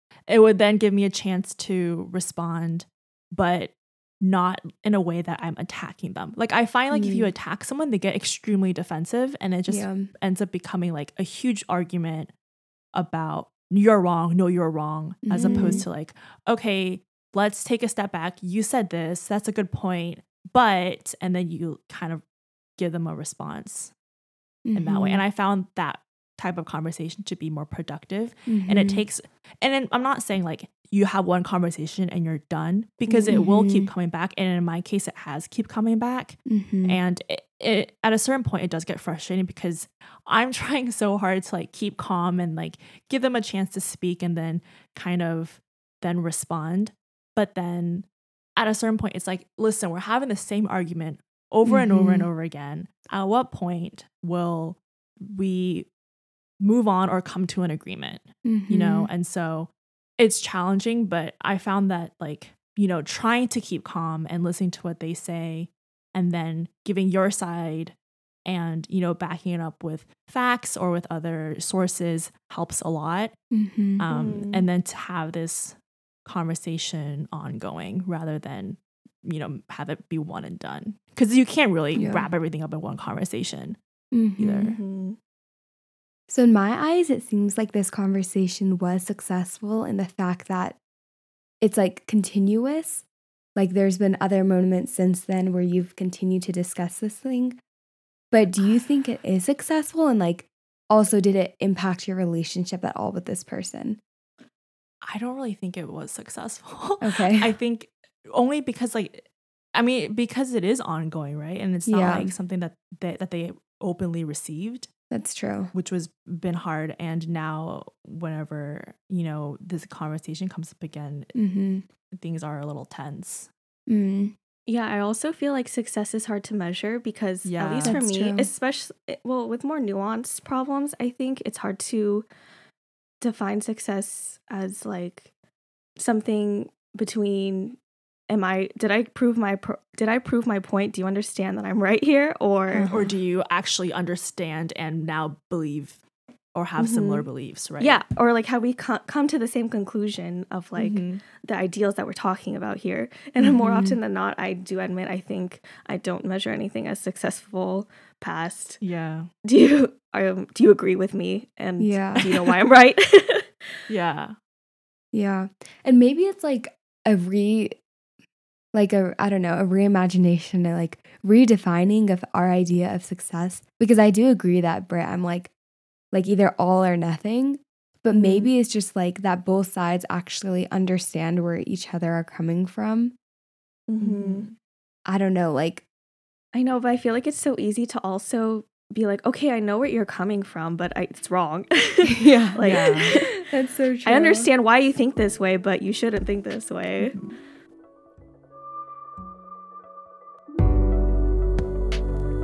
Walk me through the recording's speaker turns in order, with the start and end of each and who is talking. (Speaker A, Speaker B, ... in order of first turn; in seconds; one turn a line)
Speaker A: 0.3-12.3
Speaker B: 6.9-7.3
Speaker B: 9.7-10.1
Speaker A: 12.9-22.2
Speaker B: 15.2-15.8
Speaker C: 15.4-15.8
Speaker A: 22.8-23.9
Speaker B: 24.6-25.2
Speaker A: 24.7-55.9
Speaker B: 28.5-29.1
Speaker B: 33.1-33.9
Speaker B: 36.5-37.0
Speaker B: 51.6-52.3
Speaker A: 56.6-73.3
Speaker B: 58.4-59.1
Speaker B: 73.5-74.0
Speaker A: 74.0-83.8
Speaker C: 74.1-74.7
Speaker B: 82.0-82.3
Speaker B: 84.1-84.7
Speaker A: 84.4-84.8
Speaker C: 84.7-85.2
Speaker B: 86.3-90.8
Speaker B: 91.6-93.0
Speaker B: 93.5-97.6
Speaker B: 98.3-104.0
Speaker A: 105.0-114.9
Speaker B: 107.0-107.5
Speaker B: 111.9-112.3
Speaker B: 115.1-115.7
Speaker A: 115.7-121.3
Speaker B: 121.3-121.8
Speaker A: 122.1-123.5
Speaker B: 123.9-124.3
Speaker C: 124.7-132.3
Speaker A: 127.4-128.0
Speaker B: 127.8-128.5
Speaker C: 133.2-135.3
Speaker C: 136.0-137.8
Speaker C: 138.3-142.9
Speaker B: 142.7-143.1
Speaker A: 142.9-146.0
Speaker A: 146.5-148.0
Speaker C: 146.8-147.2
Speaker C: 147.8-158.8
Speaker A: 150.8-151.2
Speaker B: 153.4-154.0
Speaker A: 158.8-159.3
Speaker C: 159.4-163.7
Speaker B: 161.8-162.4
Speaker A: 163.9-164.3
Speaker B: 165.1-167.8
Speaker B: 168.7-175.5
Speaker B: 176.1-183.2
Speaker C: 183.9-184.5
Speaker A: 184.0-184.5
Speaker B: 185.1-185.8
Speaker C: 186.5-193.5
Speaker B: 192.0-194.5
Speaker A: 192.6-193.2
Speaker C: 194.0-197.2